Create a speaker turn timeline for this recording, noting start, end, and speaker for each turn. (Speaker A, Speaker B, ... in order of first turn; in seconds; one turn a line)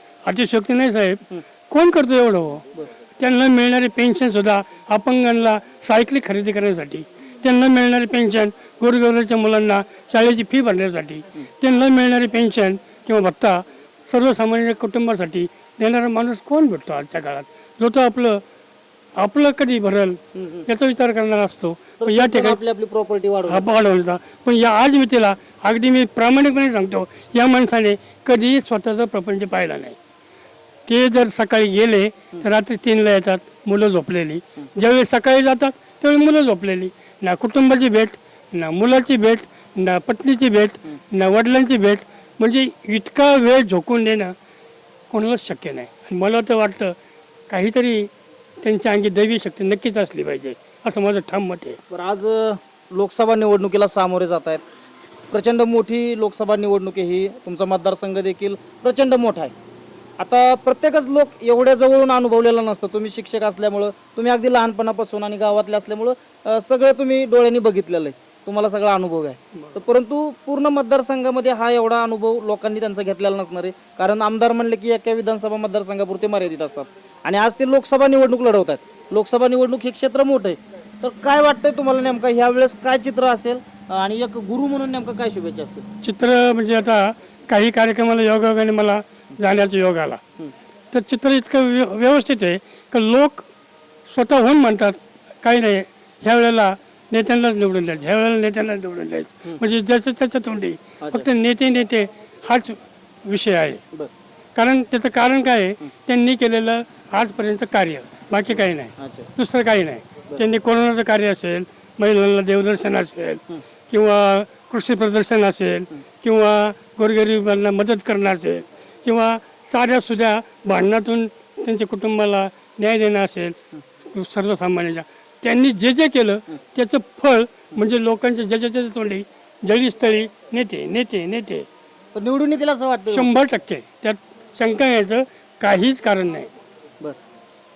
Speaker A: 0.2-2.6
Speaker A: 3.2-18.4
Speaker A: 19.2-22.6
Speaker B: 20.3-20.7
Speaker B: 22.0-23.6
Speaker A: 23.5-29.9
Speaker A: 30.9-44.3
Speaker A: 45.1-46.9
Speaker A: 47.5-48.1
Speaker A: 48.6-51.8
Speaker B: 51.9-54.6
Speaker B: 55.3-59.5
Speaker B: 60.2-85.8
Speaker A: 86.0-90.2
Speaker A: 90.9-93.5
Speaker A: 94.1-103.8
Speaker A: 104.5-123.6
Speaker B: 109.0-109.3
Speaker A: 124.1-131.7
Speaker B: 132.1-133.3
Speaker A: 133.1-136.5